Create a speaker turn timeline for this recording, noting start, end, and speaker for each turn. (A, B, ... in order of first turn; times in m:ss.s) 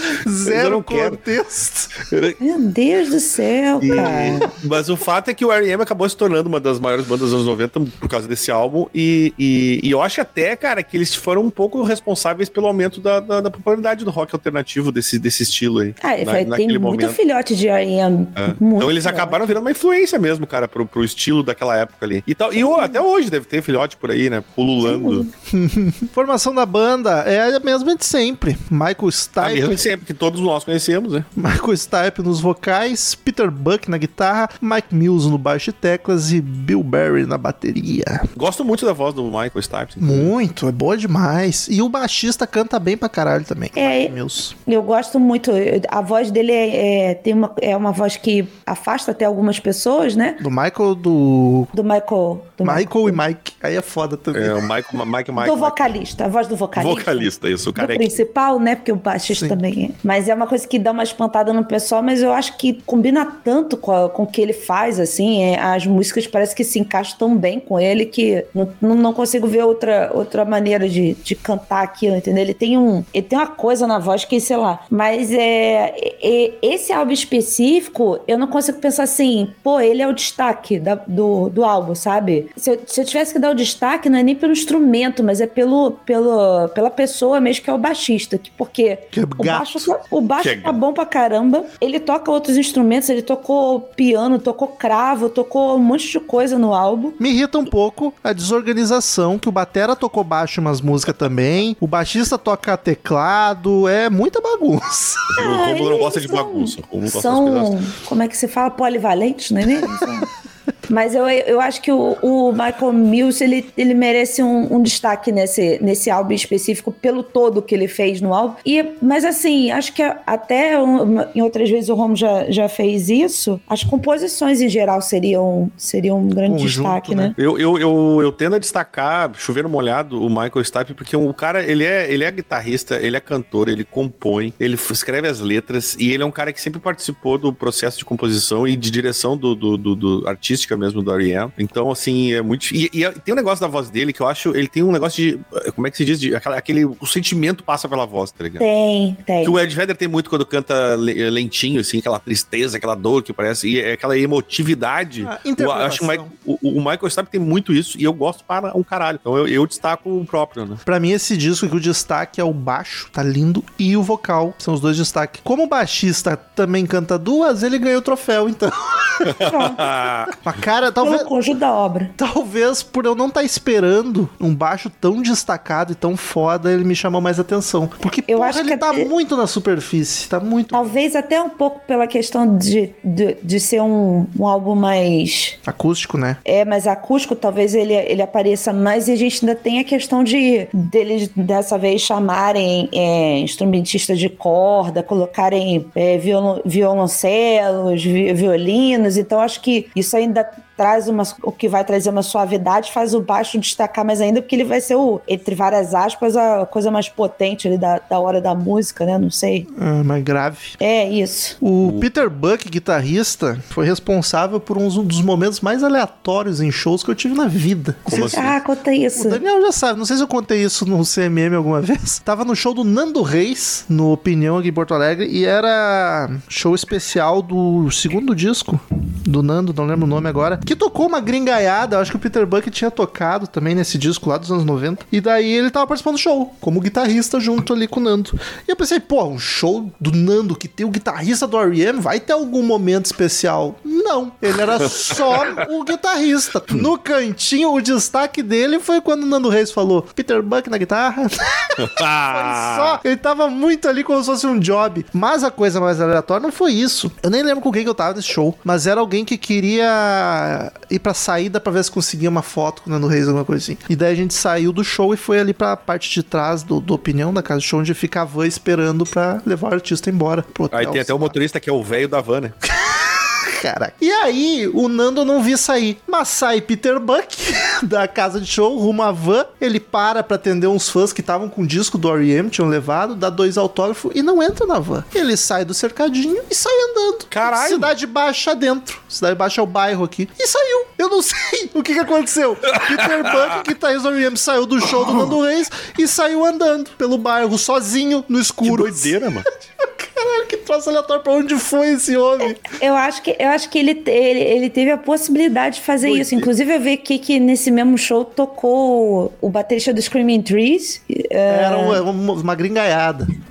0:00.1-0:01.9 A
0:00.4-0:01.2 B
0:02.0-0:02.4 B
0:02.4-0:04.5 C
0:03.8-0:17.2 B
0:16.0-0:19.4 C
0:18.4-0:25.3 B
0:22.6-0:23.0 C
0:24.8-0:25.3 C
0:25.5-0:29.8 A
0:29.4-0:31.2 B
0:31.4-0:38.3 A
0:38.4-0:40.3 B
0:40.0-0:44.5 A
0:43.7-0:50.4 C
0:50.4-0:51.7 A
0:51.7-0:53.2 C
0:52.6-0:54.6 A
0:54.3-0:56.0 B
0:55.4-1:37.2 C
0:56.8-0:58.2 B
0:59.3-0:59.6 A
1:29.1-1:29.9 A
1:30.4-1:30.8 B
1:37.2-1:45.4 A
1:45.4-1:47.7 B
1:45.4-1:50.3 C
1:50.9-2:07.4 C
2:06.4-2:07.4 A
2:07.4-2:28.6 B
2:28.6-2:29.6 C
2:29.4-2:40.8 B
2:35.2-2:36.3 A
2:40.8-2:49.4 A
2:49.2-2:50.3 B
2:49.4-2:50.0 C
2:50.4-2:51.3 A
2:51.0-2:52.1 C
2:52.2-3:01.0 A
2:58.3-2:59.1 C
3:00.7-3:05.6 C
3:05.6-3:06.4 A
3:06.4-3:29.7 C
3:29.7-3:30.8 A
3:30.8-3:31.6 C
3:31.6-3:38.5 A
3:31.8-3:32.1 B
3:38.1-3:38.6 B
3:38.1-3:39.4 C
3:39.1-4:31.4 A
4:04.8-4:05.6 B
4:11.8-4:13.0 B
4:30.7-4:32.5 B
4:32.8-4:59.1 A
4:47.3-4:47.9 B
4:52.7-4:53.6 B
4:58.6-4:59.5 B
4:59.8-5:02.6 A
5:02.6-5:12.0 C
5:06.0-5:06.5 B
5:11.5-5:13.3 A